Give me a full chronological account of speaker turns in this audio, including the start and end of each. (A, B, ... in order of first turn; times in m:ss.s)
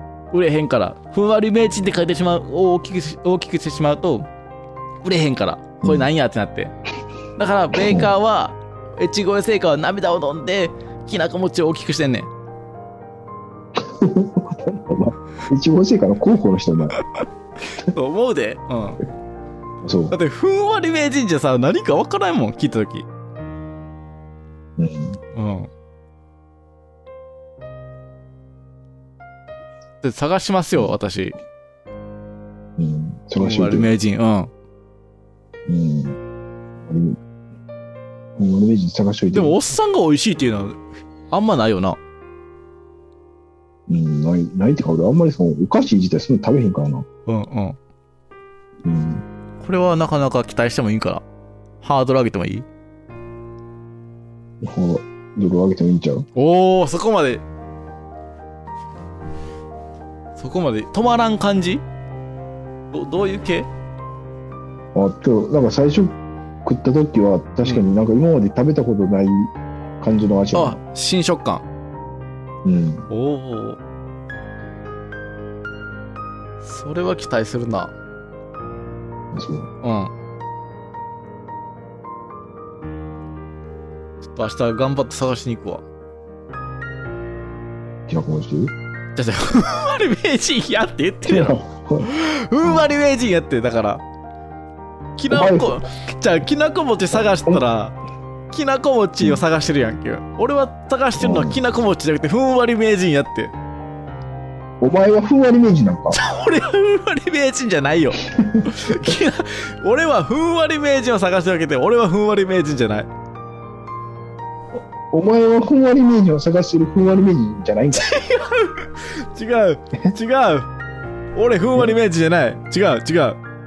0:00.3-0:04.3 A
0:05.0-0:06.7 A
0:05.8-0:06.1 B
0:07.4-0:12.3 A
0:07.8-0:08.1 B
0:13.8-0:17.0 B
0:17.9-0:19.0 A
0:19.8-0:20.2 B
0:20.1-0:23.1 A
0:24.8-0:25.2 B
0:25.3-0:25.7 A
0:30.0-0:31.3 A
0:32.8-0:33.9 B
0:33.4-0:34.5 A
0:35.7-0:36.2 B
0:36.8-0:37.2 B
0:38.4-0:39.6 B
0:39.3-0:42.0 A
0:43.9-0:47.0 B
0:47.3-0:47.8 A
0:48.8-0:49.2 B
0:49.6-0:51.2 A
0:51.8-0:52.6 A
0:54.6-0:56.3 B
0:56.3-0:57.4 A
1:00.4-1:01.8 A
1:02.9-1:03.7 A
1:04.9-1:10.8 B
1:10.5-1:11.6 A
1:12.6-1:13.1 B
1:13.1-1:13.8 A
1:16.6-1:17.9 A
1:19.3-1:19.7 B
1:19.8-1:20.1 A
1:24.2-1:25.8 A
1:28.1-1:28.7 B
1:29.1-1:34.0 A
1:31.2-1:32.1 B
1:32.6-1:32.9 B
1:35.2-1:38.0 A
1:35.3-1:35.8 B
1:37.3-1:37.6 B
1:38.5-1:43.5 A
1:41.2-1:41.6 B
1:44.8-1:46.2 B
1:46.1-1:53.1 A
1:48.3-1:49.0 B
1:55.1-1:58.2 B
1:57.9-2:00.7 A
2:01.3-2:03.4 A